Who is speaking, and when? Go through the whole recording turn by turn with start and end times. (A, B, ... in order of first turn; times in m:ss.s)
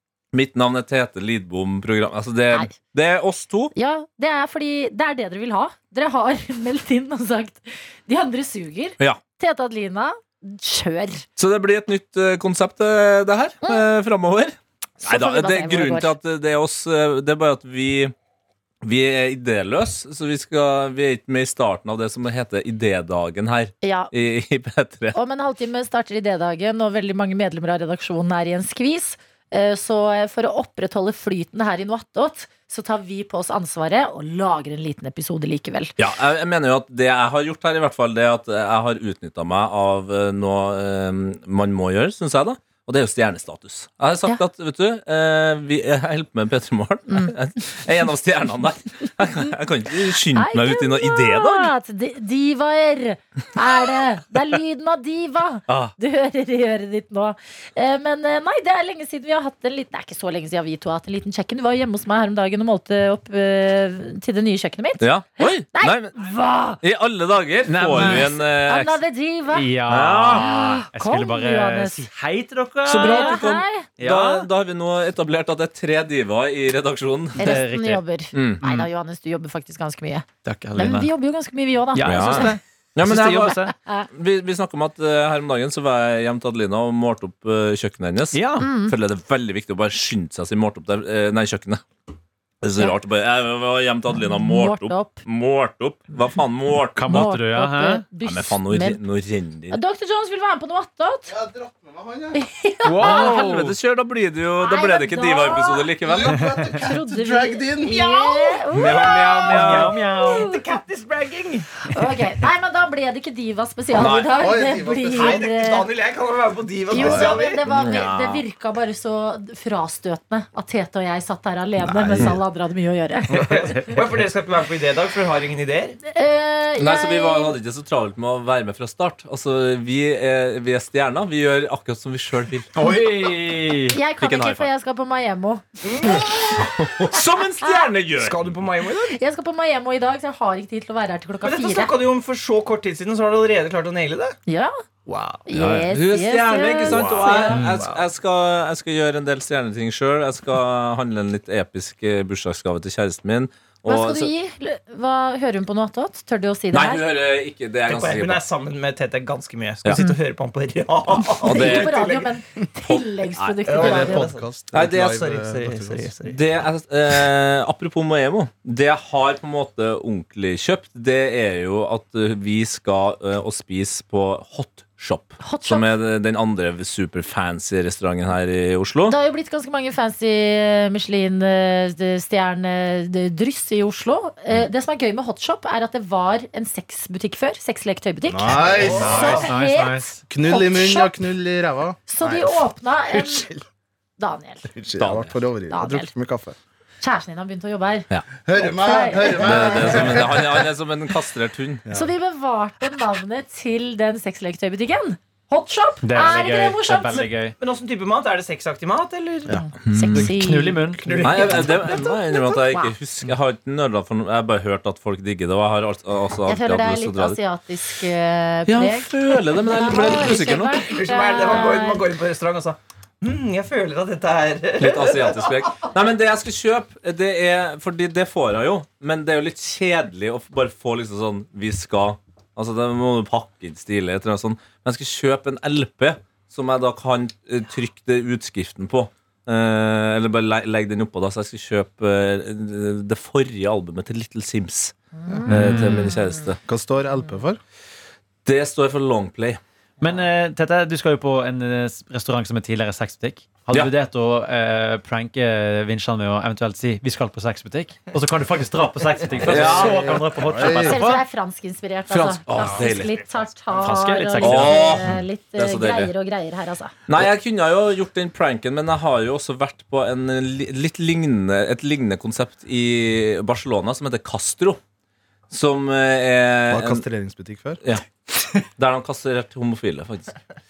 0:00.3-0:03.7 A
0:03.8-0:11.2 B
0:11.4-0:18.1 A
0:15.0-0:16.1 B
0:18.8-0:25.2 A
0:23.8-0:24.1 B
0:25.1-0:35.9 B
0:36.0-0:51.7 A
0:50.3-1:06.8 B
0:55.7-0:56.0 A
1:05.0-1:06.2 A
1:06.8-1:09.0 A
1:07.7-1:08.4 C
1:07.9-1:09.7 B
1:09.5-1:13.4 C
1:09.8-1:10.5 A
1:10.3-1:12.0 B
1:12.8-1:17.6 A
1:12.9-1:13.9 B
1:14.0-1:14.5 C
1:17.4-1:22.6 B
1:17.4-1:18.0 C
1:18.3-1:18.6 A
1:18.6-1:18.9 C
1:20.4-1:21.1 C
1:21.9-1:23.7 C
1:22.0-1:23.6 A
1:23.7-1:24.1 B
1:24.1-1:31.8 A
1:28.3-1:28.7 C
1:28.6-1:29.0 B
1:32.6-1:37.4 A
1:34.1-1:35.2 B
1:37.0-1:38.1 C
1:37.0-1:39.0 B
1:38.2-1:39.8 A
1:39.7-1:41.4 B
1:41.3-1:42.4 D
1:42.3-1:43.4 B
1:42.8-1:43.8 C
1:43.0-1:46.6 A
1:44.6-1:50.6 B
1:46.1-1:48.0 D
1:47.9-1:48.7 E
1:48.7-1:49.9 A
1:49.2-1:51.7 E
1:49.4-1:50.5 C
1:51.9-1:55.9 B
1:53.9-1:54.4 A
1:54.4-1:55.4 D
1:55.1-1:57.7 E
1:56.9-2:04.0 B
1:57.0-1:57.4 D
1:57.7-1:58.4 A
2:01.8-2:02.4 D
2:03.3-2:04.0 C
2:03.4-2:06.0 E
2:06.1-2:07.6 B
2:06.8-2:12.7 A
2:12.7-2:14.0 C
2:13.9-2:17.9 B
2:14.2-2:14.7 A
2:15.8-2:16.5 E
2:16.7-2:18.5 A
2:18.2-2:19.2 E
2:19.1-2:21.9 B
2:21.4-2:24.4 E
2:24.5-2:24.7 B
2:25.1-2:25.4 E
2:25.5-2:27.6 B
2:25.5-2:34.3 A
2:26.8-2:28.1 E
2:33.8-2:37.1 B
2:36.7-2:38.4 A
2:37.8-2:42.4 E
2:39.8-2:40.1 A
2:41.4-2:44.3 B
2:41.4-2:42.0 A
2:42.9-2:43.6 A
2:43.6-2:46.4 E
2:43.8-2:46.1 D
2:44.7-2:45.1 A
2:46.2-2:59.2 A
2:55.4-2:55.9 B
2:59.1-3:11.1 B
3:08.3-3:09.4 D
3:08.6-3:09.5 E
3:09.0-3:10.2 C
3:10.3-3:12.6 D
3:12.1-3:13.5 B
3:13.2-3:13.6 E
3:14.2-3:14.7 B
3:14.7-3:16.6 D
3:15.0-3:15.4 A
3:15.7-3:16.1 B
3:17.0-3:20.3 B
3:18.4-3:20.7 D
3:19.4-3:21.8 A
3:21.9-3:27.3 B
3:26.0-3:27.6 C
3:27.2-3:29.6 E
3:29.6-3:30.8 B
3:29.8-3:30.3 A
3:30.1-3:31.2 C
3:31.0-3:31.9 E
3:31.2-3:37.4 A
3:31.4-3:33.0 B
3:36.5-3:42.0 B
3:38.7-3:40.9 A
3:40.8-3:45.9 E
3:44.8-4:04.9 A
4:05.3-4:06.1 B
4:05.5-4:06.1 C
4:05.5-4:06.6 A
4:06.6-4:07.6 D
4:08.4-4:09.6 A
4:10.0-4:21.2 C
4:19.4-4:21.0 D
4:19.4-4:20.1 A
4:20.8-4:27.0 B
4:22.1-4:23.2 A
4:23.8-4:25.1 C
4:24.4-4:26.1 A
4:27.1-4:34.8 A
4:35.5-4:37.0 A
4:36.7-4:37.8 D
4:37.8-4:38.1 A
4:38.8-4:40.3 A